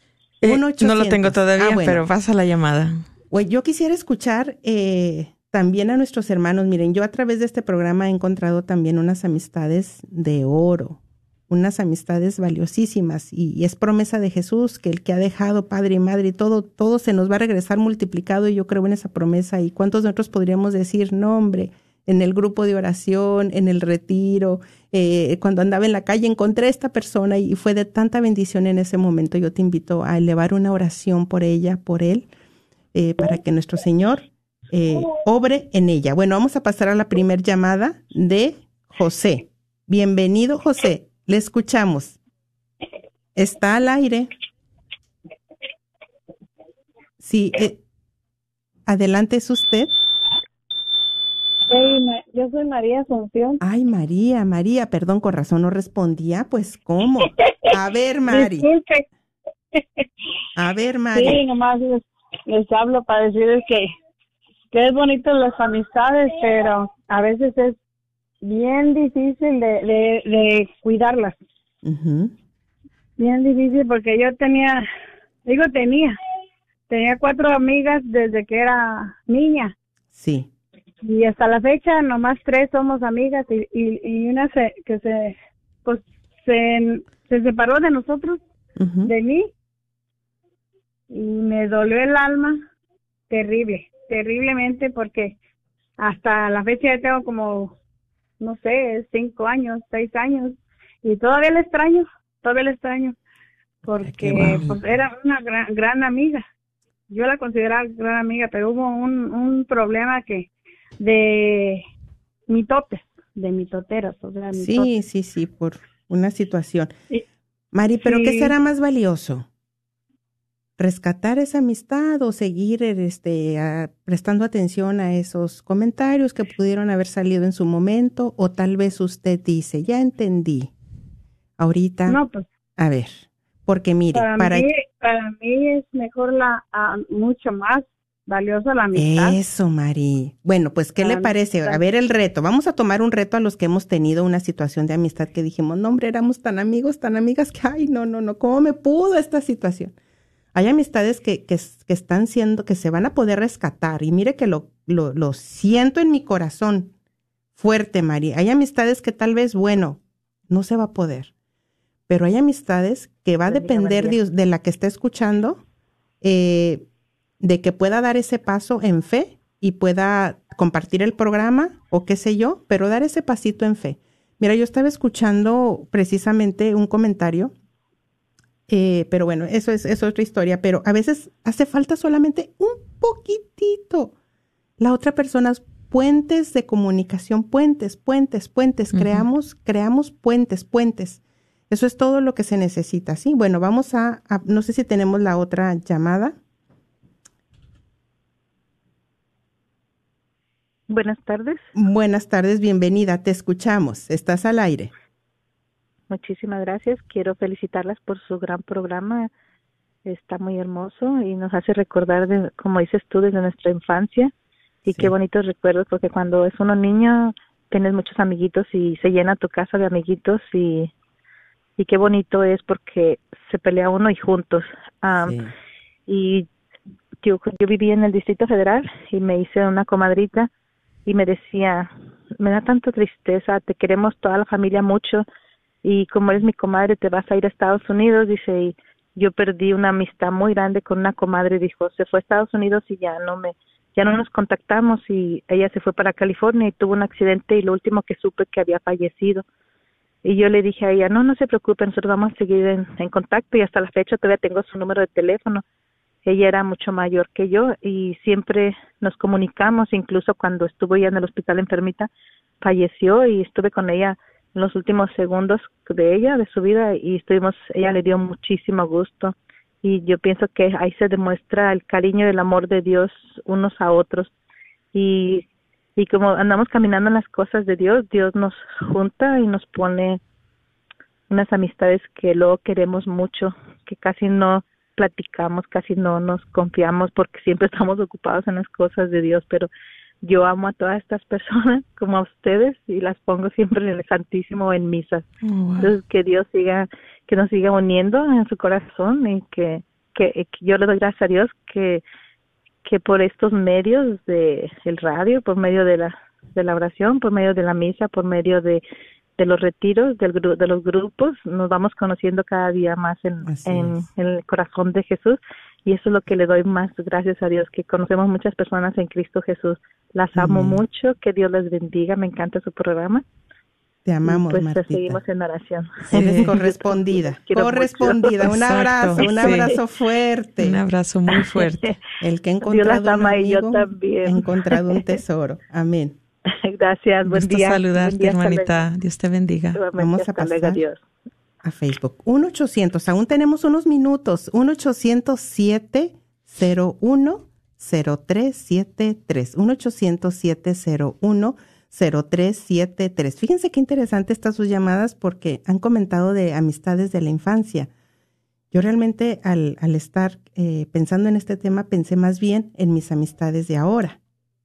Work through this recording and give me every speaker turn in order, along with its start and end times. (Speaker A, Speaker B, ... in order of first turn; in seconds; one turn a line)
Speaker A: 0.4-3.0
Speaker B: 0.4-2.0
Speaker B: 3.3-32.3
Speaker B: 32.9-42.2
Speaker B: 43.4-44.3
Speaker B: 47.2-47.8
Speaker B: 48.9-49.9
Speaker C: 51.7-53.6
Speaker B: 53.6-58.7
Speaker C: 58.2-59.0
Speaker C: 59.7-60.0
Speaker B: 60.5-61.4
Speaker C: 61.1-63.9
Speaker C: 64.7-67.8
Speaker C: 68.4-71.4
Speaker B: 71.8-72.3
Speaker C: 73.2-74.8
Speaker C: 75.4-76.2
Speaker C: 76.9-79.7
Speaker B: 80.1-80.5
Speaker C: 81.0-88.4
Speaker B: 88.8-89.1
Speaker C: 89.0-89.5
Speaker C: 91.1-92.6
Speaker C: 93.3-95.4
Speaker C: 96.0-97.7
Speaker C: 98.4-103.2
Speaker C: 103.8-106.4
Speaker B: 104.0-104.8
Speaker C: 107.1-111.8
Speaker C: 112.5-114.9
Speaker B: 114.5-116.9
Speaker B: 117.7-119.5
Speaker C: 118.0-118.5
Speaker B: 120.8-130.7
Speaker B: 131.6-132.2
Speaker C: 132.1-132.4
Speaker B: 132.8-134.7
Speaker C: 134.1-139.4
Speaker B: 138.9-149.9
Speaker C: 141.0-141.8
Speaker B: 150.5-156.9
Speaker B: 157.6-161.3
Speaker B: 162.1-165.6
Speaker D: 163.5-164.2
Speaker B: 166.2-166.8
Speaker B: 167.4-177.5
Speaker B: 178.7-184.1
Speaker B: 184.8-196.4
Speaker A: 188.9-189.2
Speaker D: 200.9-201.7
Speaker B: 201.7-204.9
Speaker D: 206.1-209.3
Speaker D: 210.0-214.3
Speaker D: 214.8-220.9
Speaker B: 214.9-215.1
Speaker D: 221.8-225.4
Speaker B: 225.1-225.5
Speaker D: 226.1-226.5
Speaker D: 227.2-230.5
Speaker D: 231.1-235.2
Speaker D: 235.8-249.4
Speaker D: 250.2-255.6
Speaker D: 256.2-262.1
Speaker D: 262.6-274.3
Speaker D: 274.9-275.4
Speaker D: 276.0-280.2
Speaker D: 281.3-289.7
Speaker D: 290.2-302.0
Speaker A: 295.4-295.9
Speaker D: 302.8-308.8
Speaker D: 309.4-323.2
Speaker B: 313.4-314.1
Speaker B: 320.3-320.8
Speaker B: 324.0-325.2
Speaker D: 324.2-329.8
Speaker B: 326.1-330.8
Speaker A: 326.1-326.5
Speaker A: 328.5-329.7
Speaker A: 330.6-331.9
Speaker D: 331.3-331.9
Speaker B: 332.2-336.2
Speaker D: 332.6-335.1
Speaker D: 336.5-338.9
Speaker A: 337.2-339.8
Speaker D: 339.7-341.0
Speaker B: 339.9-340.8
Speaker B: 341.6-357.9
Speaker B: 358.7-364.2